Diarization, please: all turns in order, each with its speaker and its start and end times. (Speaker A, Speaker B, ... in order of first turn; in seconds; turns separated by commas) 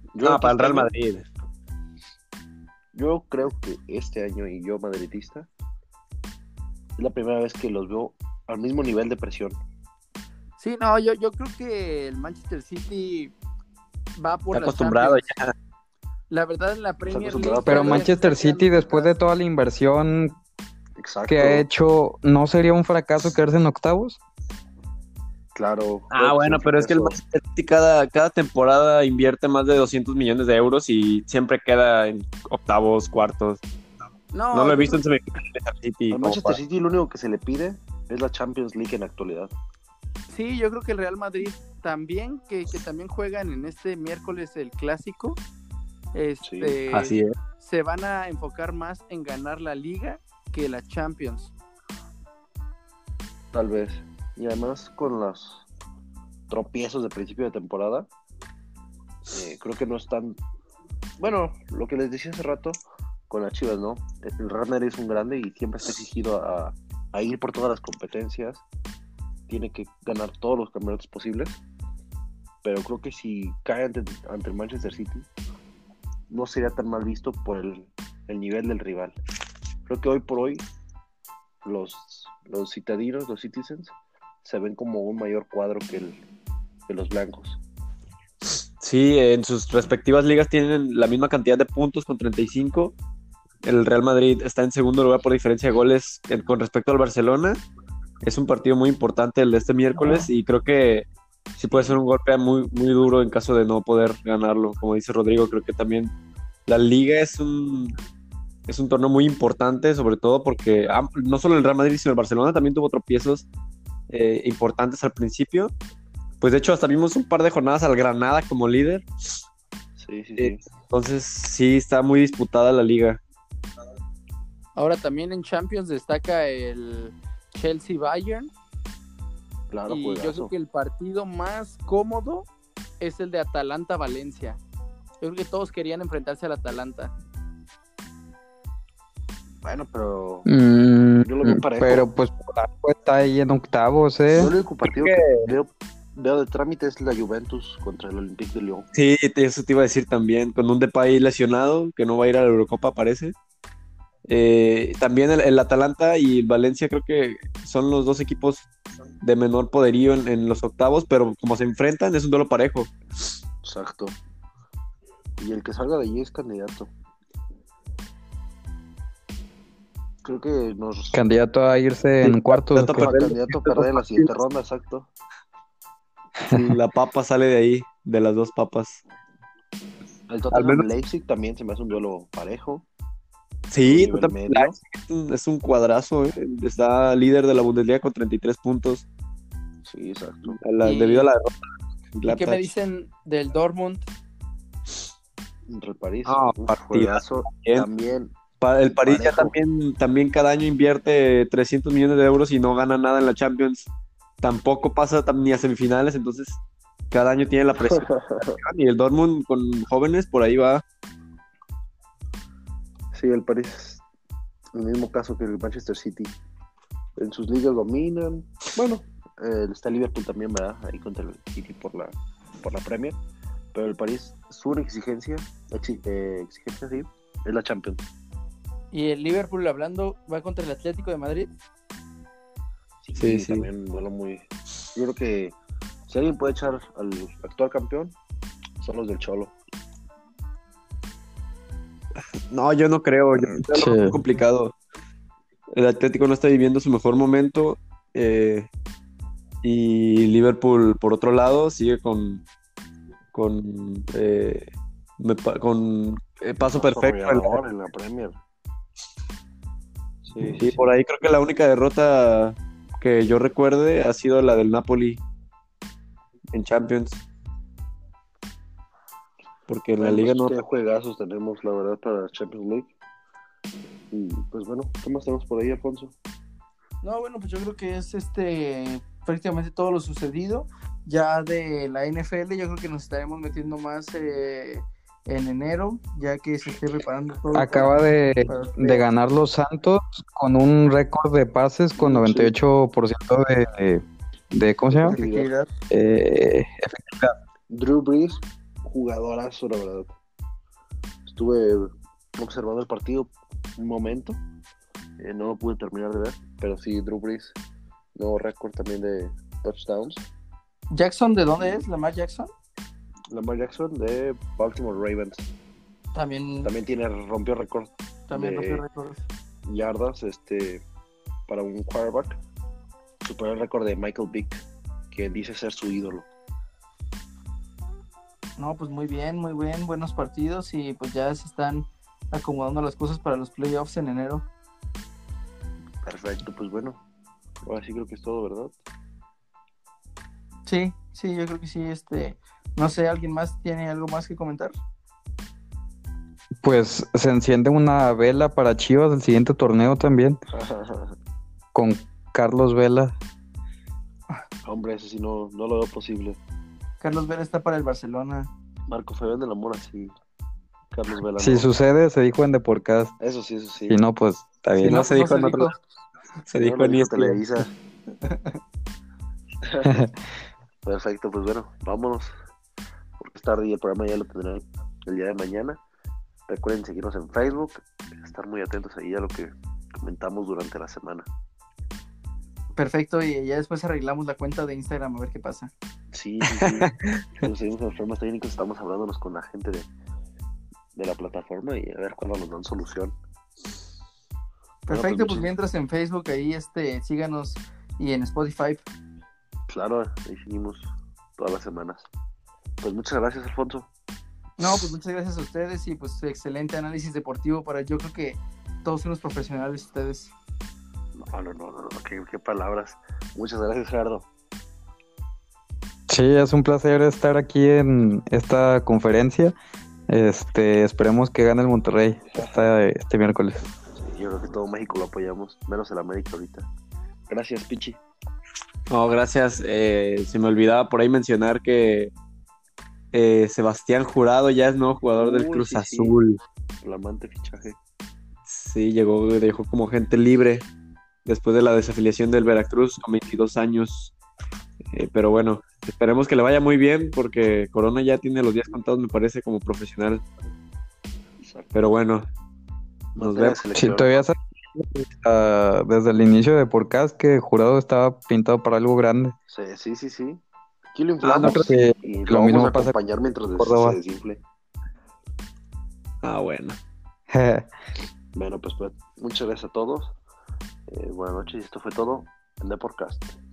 Speaker A: 0.1-0.9, Speaker B: 0.2-1.3, Speaker A: 2.9-5.5, Speaker A: 7.0-9.6, Speaker C: 10.6-13.3, Speaker C: 14.2-15.3, Speaker B: 14.5-15.5, Speaker C: 16.3-19.1, Speaker A: 17.1-18.1, Speaker D: 17.7-20.4, Speaker A: 21.0-21.7, Speaker D: 21.3-24.2, Speaker A: 25.6-27.2, Speaker B: 26.1-33.6, Speaker C: 34.3-35.0, Speaker B: 34.5-36.6, Speaker A: 36.1-39.5, Speaker C: 40.3-45.4, Speaker C: 46.1-51.5, Speaker A: 46.4-46.8, Speaker B: 46.9-47.3, Speaker A: 53.5-55.7, Speaker A: 56.5-58.1, Speaker A: 59.3-60.4, Speaker A: 61.2-68.7, Speaker A: 69.5-71.6, Speaker A: 72.6-75.3, Speaker A: 76.3-79.2, Speaker A: 79.9-80.7, Speaker A: 81.7-86.2, Speaker A: 86.9-87.6, Speaker B: 88.8-93.0, Speaker B: 93.6-97.6, Speaker B: 98.2-101.1, Speaker A: 101.6-102.0, Speaker B: 101.6-106.1, Speaker B: 106.7-108.0, Speaker B: 108.7-113.5, Speaker B: 114.1-115.7, Speaker B: 116.4-119.0, Speaker A: 120.0-120.6, Speaker B: 120.4-123.2, Speaker C: 124.8-128.5, Speaker A: 129.7-130.5, Speaker C: 129.9-132.5, Speaker C: 133.0-134.6, Speaker C: 135.2-137.1, Speaker A: 139.6-140.5, Speaker D: 140.5-144.5, Speaker A: 141.2-142.1, Speaker A: 144.3-148.9, Speaker B: 144.8-145.3, Speaker B: 148.9-153.3, Speaker B: 154.3-158.7, Speaker B: 159.2-162.9, Speaker A: 163.6-164.2, Speaker A: 165.4-166.9, Speaker A: 170.2-171.2, Speaker D: 171.1-173.1, Speaker B: 172.2-174.3, Speaker A: 172.8-175.1, Speaker B: 176.5-179.0, Speaker A: 180.3-182.9, Speaker B: 180.5-180.8, Speaker B: 183.7-189.1, Speaker A: 183.8-184.8, Speaker A: 189.8-190.6, Speaker B: 190.6-191.5, Speaker C: 190.8-191.3, Speaker B: 192.1-192.7, Speaker C: 192.3-194.1, Speaker A: 195.7-198.4, Speaker B: 196.2-197.9, Speaker B: 198.6-203.9, Speaker A: 198.9-199.5, Speaker B: 204.4-206.6, Speaker B: 207.1-210.8, Speaker A: 207.8-208.6, Speaker A: 213.1-214.0, Speaker A: 214.8-216.3, Speaker A: 217.2-223.2, Speaker A: 223.7-228.0, Speaker C: 228.9-231.5, Speaker A: 233.0-234.4, Speaker B: 233.2-233.7, Speaker A: 234.9-238.2, Speaker A: 238.8-239.5, Speaker B: 242.5-244.8, Speaker D: 243.5-244.2, Speaker B: 245.7-248.7, Speaker B: 249.6-252.4, Speaker B: 253.3-257.6, Speaker A: 256.7-258.4, Speaker A: 260.2-260.8, Speaker B: 260.6-265.2, Speaker B: 266.5-267.2, Speaker B: 269.7-270.6, Speaker A: 270.0-272.9, Speaker A: 274.1-276.1, Speaker C: 277.0-289.1, Speaker D: 287.6-295.2, Speaker A: 292.0-292.5, Speaker A: 295.0-295.5, Speaker C: 295.0-295.7, Speaker D: 295.9-297.3, Speaker A: 297.7-300.1, Speaker A: 301.3-304.4, Speaker A: 305.2-307.6, Speaker A: 308.2-310.3, Speaker C: 310.9-312.5, Speaker A: 311.6-311.9, Speaker A: 313.3-315.5, Speaker C: 316.1-316.7, Speaker A: 316.6-318.8, Speaker C: 318.3-319.2, Speaker A: 319.6-320.8, Speaker A: 321.5-322.4, Speaker A: 323.2-326.3, Speaker C: 328.6-334.4, Speaker A: 336.0-337.0, Speaker A: 337.7-338.7, Speaker C: 340.7-344.7, Speaker D: 346.6-350.4, Speaker A: 350.6-351.1, Speaker D: 351.8-353.1, Speaker A: 354.6-356.4, Speaker C: 357.0-358.5, Speaker A: 358.9-360.1, Speaker A: 360.9-361.7, Speaker D: 361.4-363.1, Speaker A: 363.2-364.0, Speaker D: 363.9-365.1, Speaker C: 364.8-365.8, Speaker B: 364.9-365.8, Speaker B: 366.5-367.4, Speaker A: 366.6-367.7, Speaker A: 369.7-370.1, Speaker D: 369.9-370.1, Speaker A: 370.9-372.3, Speaker A: 373.2-375.8, Speaker A: 376.5-381.3, Speaker C: 382.8-385.7, Speaker A: 386.1-386.9, Speaker B: 386.5-386.9, Speaker A: 387.4-389.9, Speaker A: 390.9-393.1, Speaker C: 394.9-398.8, Speaker A: 394.9-395.5, Speaker A: 399.7-402.1, Speaker A: 402.8-403.9, Speaker C: 404.6-410.3, Speaker A: 411.2-414.3, Speaker D: 416.1-419.6, Speaker D: 420.1-423.6, Speaker A: 422.4-422.7, Speaker A: 423.9-426.7, Speaker A: 427.3-428.0, Speaker B: 428.9-432.1, Speaker B: 433.1-436.4, Speaker A: 435.1-436.2, Speaker A: 436.8-437.8, Speaker B: 438.5-440.7, Speaker B: 441.3-444.1, Speaker B: 444.9-450.2, Speaker A: 451.4-451.9, Speaker B: 451.7-452.3, Speaker A: 453.1-454.2, Speaker B: 453.2-453.6, Speaker D: 453.7-459.3, Speaker A: 459.5-460.4, Speaker A: 460.9-464.4, Speaker D: 461.2-462.9, Speaker D: 463.6-464.0, Speaker B: 466.2-466.8, Speaker D: 467.3-467.7, Speaker A: 468.4-470.1, Speaker A: 470.9-473.4